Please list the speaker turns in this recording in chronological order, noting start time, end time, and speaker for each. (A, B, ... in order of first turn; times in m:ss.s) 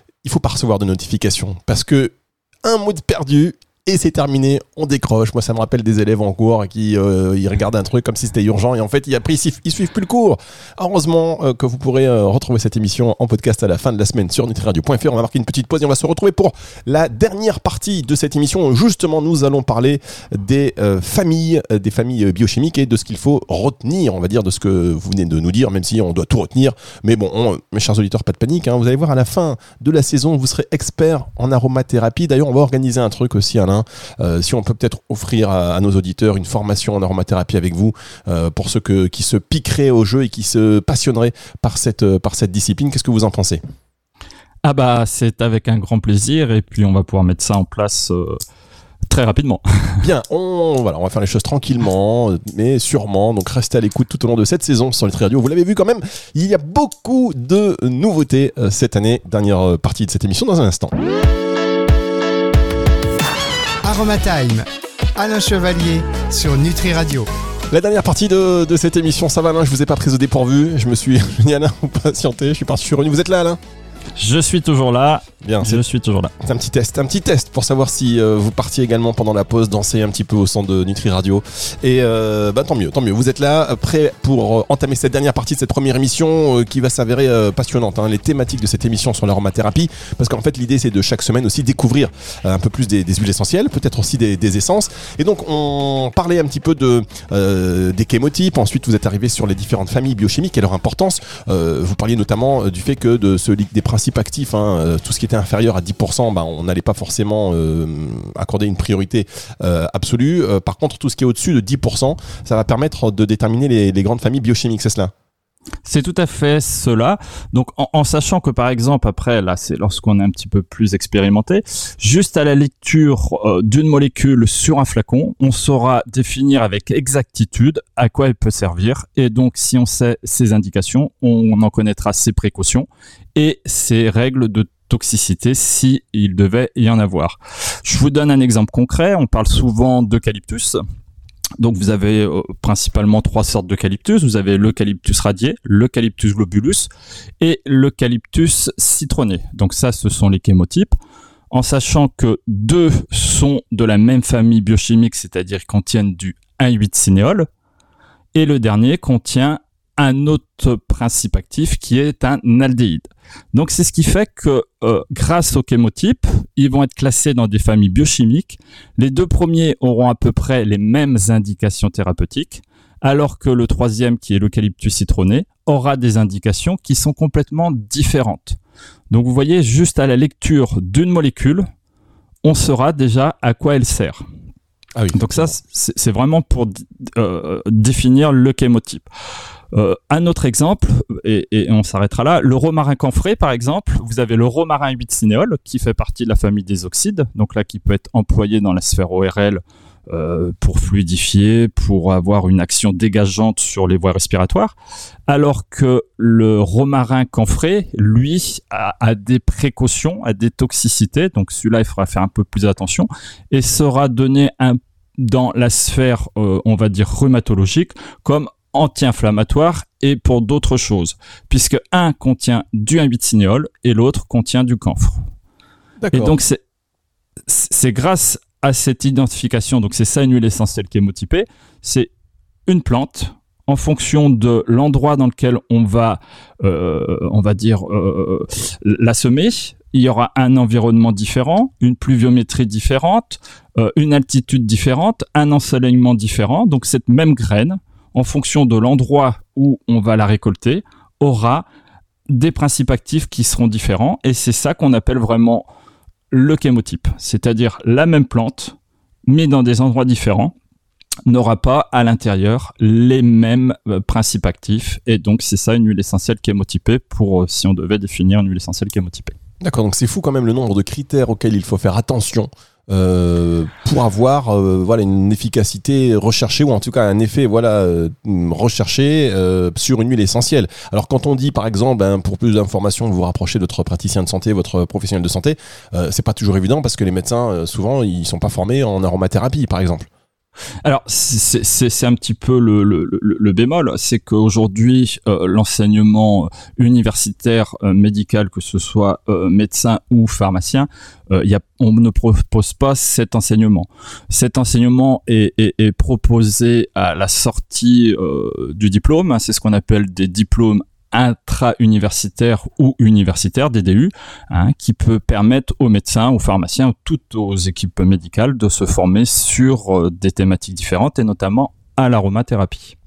0:00.2-0:43.6 A
0:44.6-0:48.4 B
0:49.1-0:50.0 B
0:50.0-1:00.9 A
1:03.8-1:07.3 C
1:07.7-1:13.6 A
1:14.2-1:16.3 B
1:15.4-1:15.8 A
1:16.4-1:55.1 A
1:55.8-2:20.8 B
2:21.6-2:26.9 B
2:27.4-2:30.9 B
2:31.5-2:37.5 B
2:38.3-2:58.6 B
2:59.1-3:01.6 B
3:02.4-3:04.2 B
3:05.0-3:05.6 A
3:05.1-3:09.1 B
3:09.7-3:24.7 B
3:25.3-3:45.2 B
3:46.0-3:46.4 A
3:46.1-3:46.6 B
3:47.5-3:52.1 B
3:52.7-4:11.6 B
4:12.3-4:15.6 B
4:16.3-4:20.5 B
4:21.3-4:29.3 B
4:29.6-4:50.1 A
4:50.8-5:23.0 B